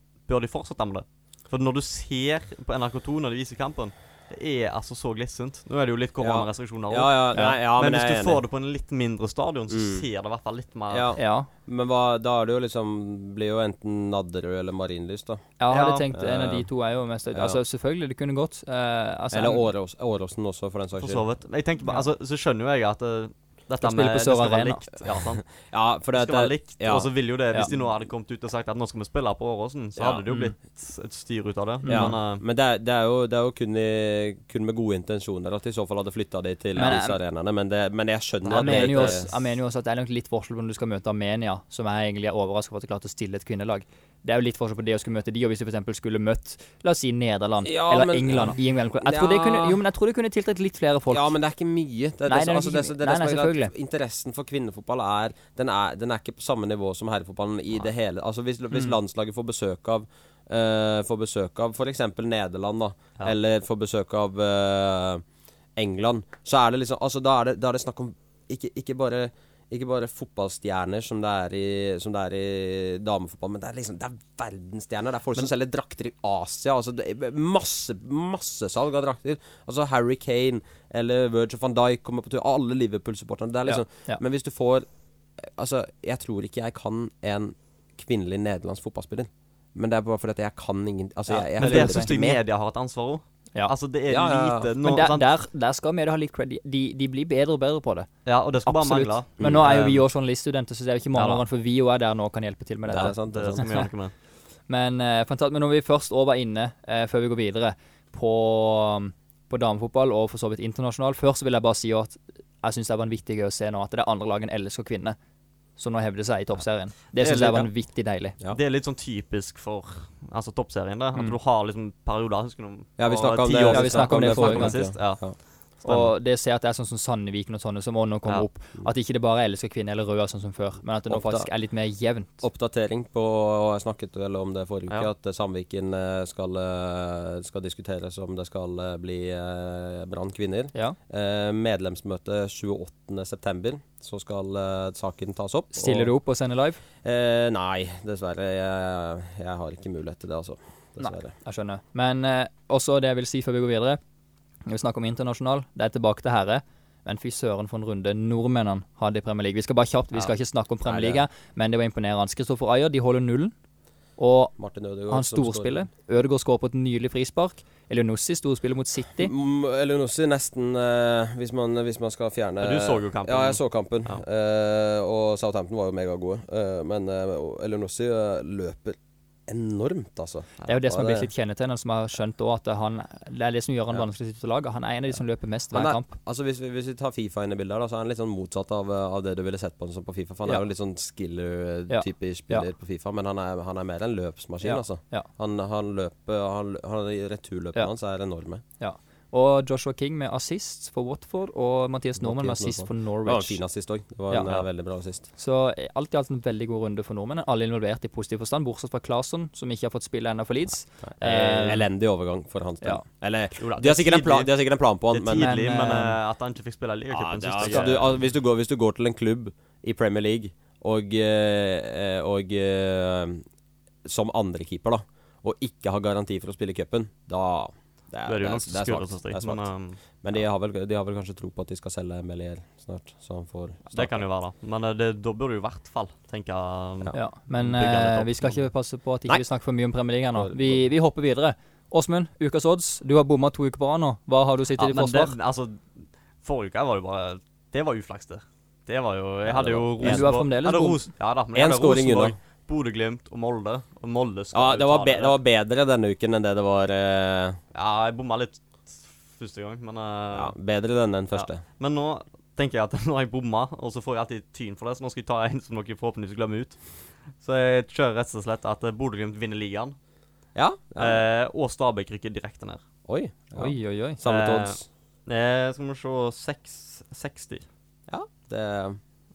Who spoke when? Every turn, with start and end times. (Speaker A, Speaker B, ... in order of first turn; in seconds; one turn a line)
Speaker A: 0.3-11.1
Speaker B: 6.2-8.4
Speaker B: 9.7-10.0
Speaker B: 10.9-15.6
Speaker C: 11.2-11.5
Speaker C: 15.6-19.6
Speaker A: 15.7-16.1
Speaker B: 16.1-16.7
Speaker B: 17.3-17.6
Speaker B: 19.3-21.2
Speaker A: 21.0-25.4
Speaker C: 23.8-24.9
Speaker B: 25.6-27.1
Speaker A: 26.1-32.4
Speaker B: 30.0-30.2
Speaker C: 30.3-30.5
Speaker C: 31.8-32.1
Speaker B: 31.9-39.3
Speaker C: 36.8-37.1
Speaker A: 38.5-39.2
Speaker C: 38.5-51.3
Speaker B: 47.6-49.8
Speaker B: 51.1-65.2
Speaker C: 52.3-53.7
Speaker B: 65.8-84.8
Speaker C: 83.7-84.2
Speaker B: 85.4-92.4
Speaker C: 91.3-92.1
Speaker A: 91.6-95.3
Speaker B: 94.1-94.7
Speaker C: 94.8-98.1
Speaker A: 98.2-100.0
Speaker C: 98.6-103.8
Speaker B: 99.4-99.9
Speaker A: 101.2-101.4
Speaker B: 102.9-103.6
Speaker A: 103.0-104.1
Speaker C: 104.7-115.2
Speaker C: 115.8-118.3
Speaker B: 117.2-117.7
Speaker A: 118.5-125.2
Speaker B: 123.0-125.4
Speaker C: 123.7-124.9
Speaker C: 125.8-132.4
Speaker B: 131.1-131.5
Speaker B: 132.4-146.1
Speaker C: 145.7-146.8
Speaker B: 147.0-151.3
Speaker C: 151.0-154.0
Speaker C: 154.7-163.5
Speaker B: 160.8-161.2
Speaker C: 164.2-164.6
Speaker B: 164.6-165.9
Speaker C: 165.1-169.3
Speaker B: 169.2-181.3
Speaker A: 172.6-174.2
Speaker C: 180.7-186.1
Speaker B: 185.7-198.6
Speaker C: 191.9-192.7
Speaker C: 194.6-195.3
Speaker C: 198.8-203.6
Speaker B: 202.2-205.3
Speaker C: 205.4-211.9
Speaker B: 211.0-215.5
Speaker A: 213.6-214.5
Speaker A: 215.1-218.1
Speaker C: 215.3-216.2
Speaker B: 217.1-223.4
Speaker C: 217.6-218.0
Speaker B: 224.0-229.7
Speaker A: 228.3-230.0
Speaker B: 230.2-234.2
Speaker A: 233.9-238.6
Speaker C: 237.1-245.3
Speaker B: 240.3-240.8
Speaker A: 244.8-255.4
Speaker B: 249.5-250.3
Speaker C: 250.0-251.0
Speaker B: 251.5-252.3
Speaker B: 254.5-257.6
Speaker A: 257.7-260.5
Speaker B: 260.3-261.6
Speaker A: 261.3-266.8
Speaker A: 267.4-269.9
Speaker B: 270.5-271.2
Speaker A: 271.0-272.8
Speaker B: 273.1-274.8
Speaker C: 273.6-274.2
Speaker A: 274.2-277.6
Speaker B: 278.1-279.0